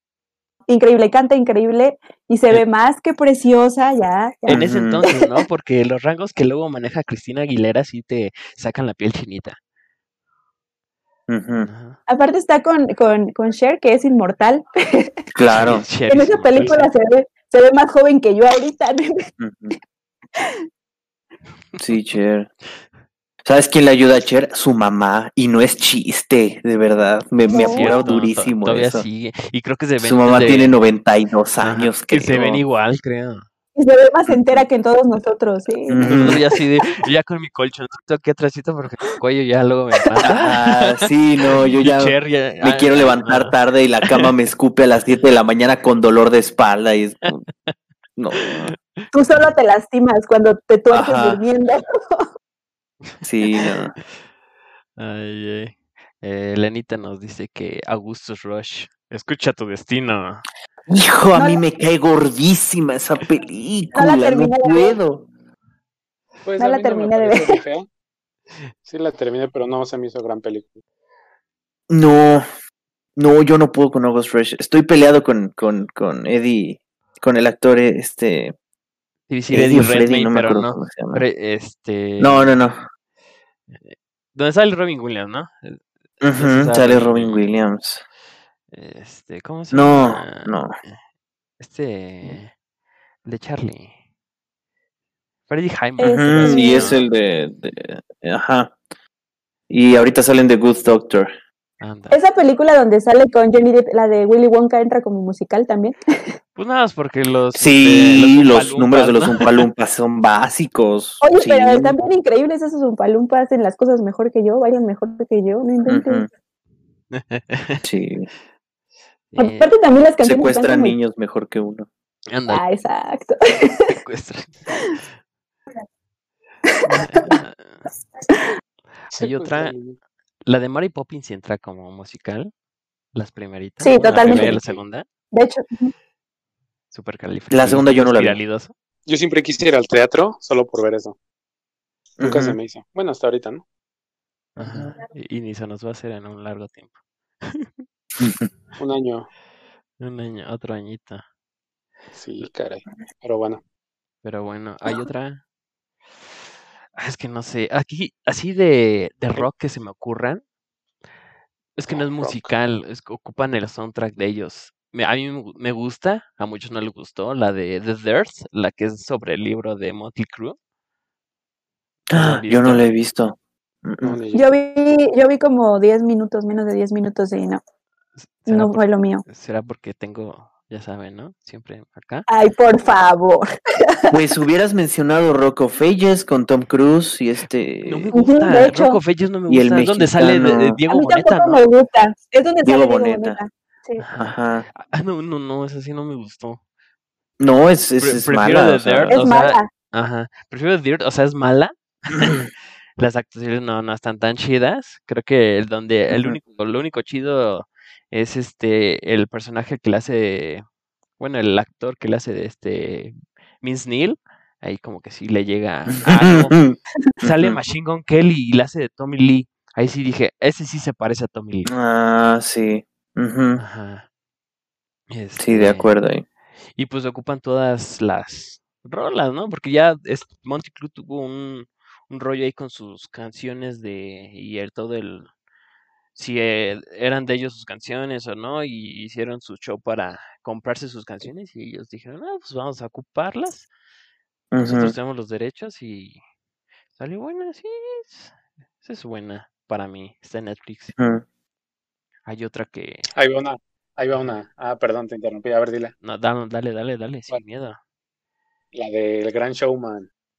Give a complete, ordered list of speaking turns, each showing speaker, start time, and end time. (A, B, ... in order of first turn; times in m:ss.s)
0:00.7-0:05.3 A
0:04.5-0:09.6 B
0:04.5-0:05.0 C
0:11.3-0:11.7 C
0:11.6-0:12.0 B
0:12.1-0:15.2 A
0:15.4-0:15.9 C
0:15.5-0:16.9 B
0:16.1-0:19.3 A
0:19.4-0:19.8 C
0:21.8-0:22.5 C
0:23.4-0:29.0 C
0:27.5-0:28.1 A
0:27.5-0:30.7 B
0:30.0-0:32.6 C
0:31.6-0:33.5 B
0:33.8-0:36.4 A
0:34.3-0:34.6 C
0:35.9-0:36.4 C
0:36.0-0:41.1 B
0:40.2-0:47.4 C
0:41.6-0:43.6 B
0:48.2-0:48.7 C
0:48.4-0:49.1 B
0:49.1-0:52.3 A
0:50.9-0:51.4 C
0:53.2-0:54.0 C
0:55.0-1:00.5 B
1:00.9-1:05.3 C
1:01.4-1:01.6 A
1:03.9-1:05.0 A
1:06.4-1:07.9 D
1:06.6-1:07.6 A
1:08.9-1:10.8 D
1:11.9-1:12.5 C
1:13.2-1:18.5 C
1:19.3-1:22.6 B
1:19.5-1:21.2 C
1:22.2-1:22.8 C
1:23.7-1:27.4 B
1:26.2-1:28.0 C
1:28.7-1:31.0 B
1:29.7-1:30.7 C
1:31.6-1:32.5 B
1:33.2-1:34.0 B
1:35.5-1:37.0 B
1:36.0-1:36.9 A
1:36.0-1:38.7 C
1:39.7-1:41.3 C
1:41.8-1:42.2 B
1:42.1-1:46.3 A
1:46.6-1:49.6 B
1:47.6-1:52.0 C
1:51.2-1:56.3 A
1:55.9-1:56.3 C
1:57.1-1:57.8 B
1:57.8-1:58.3 C
1:59.3-1:59.7 B
1:59.4-2:01.0 A
2:00.2-2:01.9 C
2:02.3-2:02.6 B
2:02.5-2:04.0 A
2:03.9-2:05.0 B
2:06.7-2:07.4 A
2:06.9-2:07.9 B
2:09.1-2:09.8 B
2:09.1-2:10.0 D
2:10.5-2:12.5 B
2:13.1-2:15.1 B
2:13.8-2:14.6 A
2:14.1-2:14.6 C
2:15.3-2:15.9 A
2:16.9-2:18.7 B
2:17.5-2:18.4 C
2:19.1-2:21.2 D
2:22.2-2:23.6 D
2:22.2-2:22.6 C
2:24.6-2:27.8 B
2:24.6-2:24.9 C
2:28.2-2:28.5 C
2:28.8-2:29.3 D
2:30.0-2:31.2 B
2:32.1-2:33.6 D
2:34.2-2:35.4 B
2:37.0-2:40.4 B
2:41.8-2:50.6 B
2:41.9-2:42.5 D
2:52.1-2:54.2 C
2:52.1-2:52.9 B
2:54.0-2:54.5 D
2:54.3-2:57.6 A
2:58.2-3:02.3 B
2:58.5-2:59.2 A
3:02.3-3:04.2 A
3:04.1-3:08.1 C
3:07.8-3:11.6 B
3:08.1-3:09.0 A
3:09.5-3:10.8 C
3:10.9-3:14.0 A
3:12.6-3:13.4 C
3:14.0-3:16.6 B
3:14.2-3:14.7 C
3:17.4-3:19.2 C
3:18.0-3:30.6 B
3:19.1-3:19.7 A
3:26.1-3:26.4 C
3:31.2-3:36.6 B
3:35.9-3:37.6 C
3:37.2-3:41.7 B
3:41.7-3:43.6 C
3:43.6-3:44.1 B
3:45.1-3:46.0 B
3:45.4-3:46.2 C
3:46.8-3:55.3 B
3:56.2-4:03.7 B
4:04.5-4:04.9 C
4:04.6-4:06.2 B
4:07.0-4:11.0 B
4:11.0-4:11.2 C
4:12.3-4:13.1 B
4:13.2-4:15.9 D
4:16.0-4:17.8 B
4:18.7-4:20.1 D